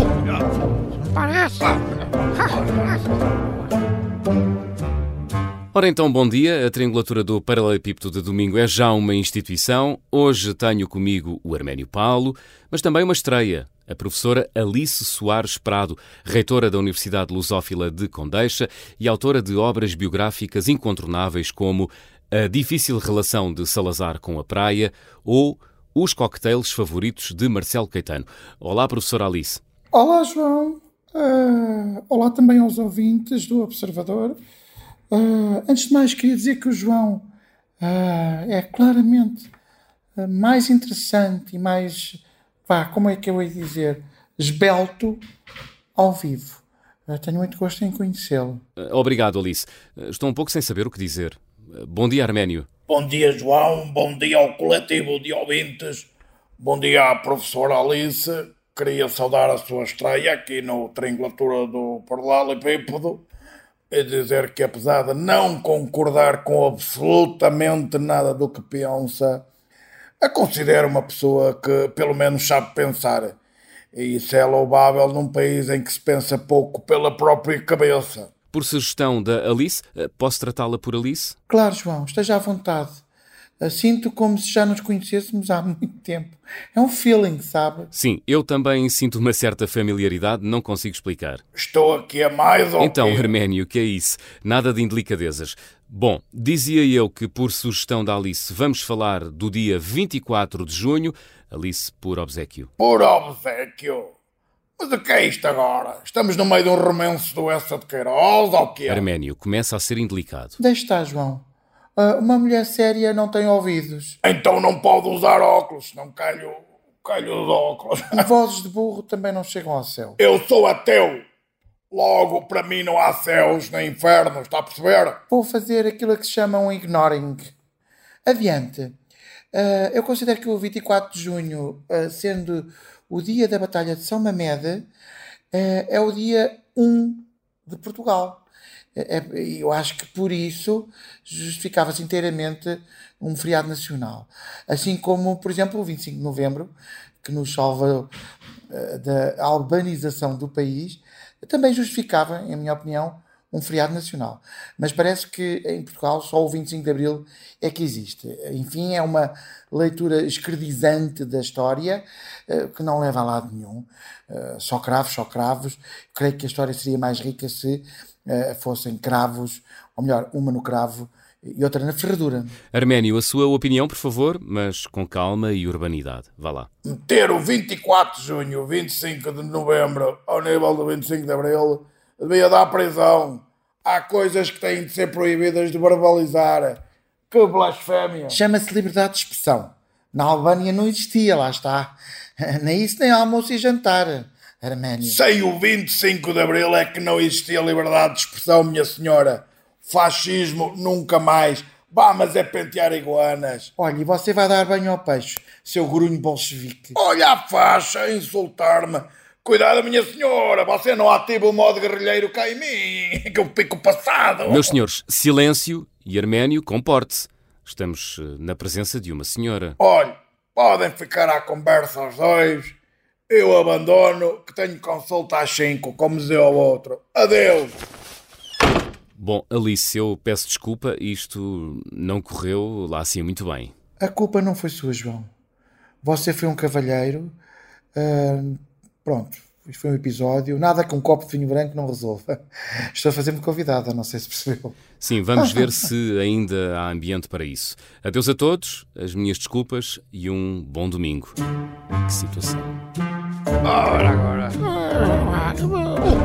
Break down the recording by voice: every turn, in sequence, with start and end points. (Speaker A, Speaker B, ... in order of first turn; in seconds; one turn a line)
Speaker A: 5.7-29.6
Speaker B: 29.9-34.4
Speaker B: 35.1-37.3
Speaker B: 37.8-39.5
Speaker B: 40.1-45.2
Speaker B: 45.9-48.6
Speaker A: 48.8-52.7
Speaker C: 52.9-63.2
Speaker C: 63.9-69.5
Speaker C: 70.2-73.4
Speaker C: 73.9-78.3
Speaker A: 78.5-81.3
Speaker B: 81.5-83.0
Speaker B: 83.6-87.9
Speaker A: 87.9-91.4
Speaker C: 91.5-93.3
Speaker A: 92.8-102.7
Speaker C: 102.8-104.1
Speaker C: 104.8-109.0
Speaker A: 108.9-110.6
Speaker B: 110.6-111.4
Speaker B: 112.0-114.2
Speaker C: 114.2-118.2
Speaker B: 118.1-120.2
Speaker C: 120.2-121.2
Speaker C: 121.9-125.2
Speaker B: 125.3-127.5
Speaker B: 128.2-128.9
Speaker B: 129.5-134.9
Speaker B: 135.5-138.4
Speaker B: 138.9-148.1
Speaker B: 148.7-172.5
Speaker A: 172.7-176.7
Speaker C: 176.8-186.8
Speaker C: 187.3-188.4
Speaker B: 188.3-195.2
Speaker C: 195.0-203.7
Speaker B: 203.8-207.0
Speaker C: 206.9-214.7
Speaker A: 214.4-219.8
Speaker C: 219.8-222.8
Speaker C: 223.3-227.8
Speaker A: 229.2-233.7
Speaker B: 234.0-235.3
Speaker B: 236.0-237.3
Speaker B: 237.9-244.8
Speaker A: 245.0-251.3
Speaker B: 245.4-245.7
Speaker A: 252.0-252.8
Speaker C: 253.6-254.6